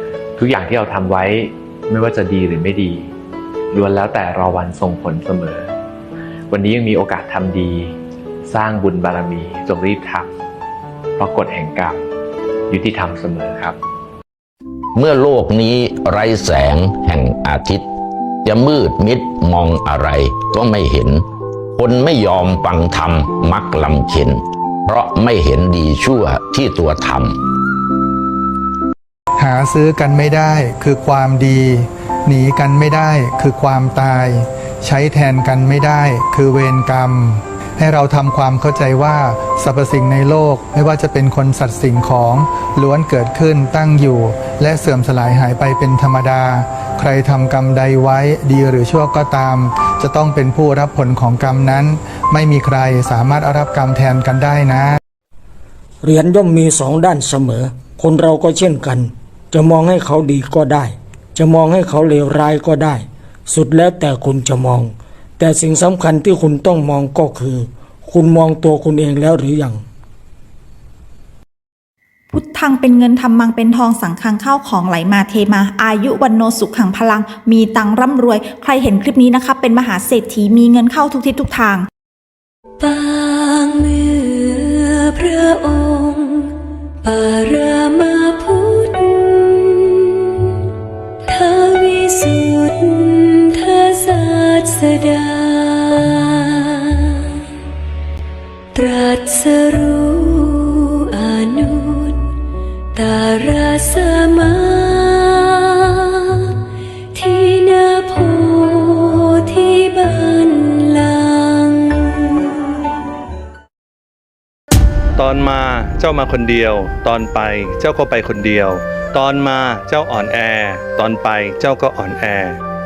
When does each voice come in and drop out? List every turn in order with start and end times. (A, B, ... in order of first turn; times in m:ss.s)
0:00.4-0:03.1 A
0:03.7-0:05.7 A
0:06.5-0:07.9 A
0:08.4-0:10.3 A
0:11.2-0:12.0 A
0:12.7-0:13.8 A
0:15.0-0:17.8 B
0:18.4-0:21.2 B
0:21.8-0:27.4 B
0:29.4-0:55.0 C
0:56.0-1:09.8 D
1:12.3-1:21.9 E
1:22.8-1:30.6 F
1:31.2-1:37.4 F
1:38.7-1:42.3 F
1:42.9-1:52.6 F
1:55.2-2:02.6 G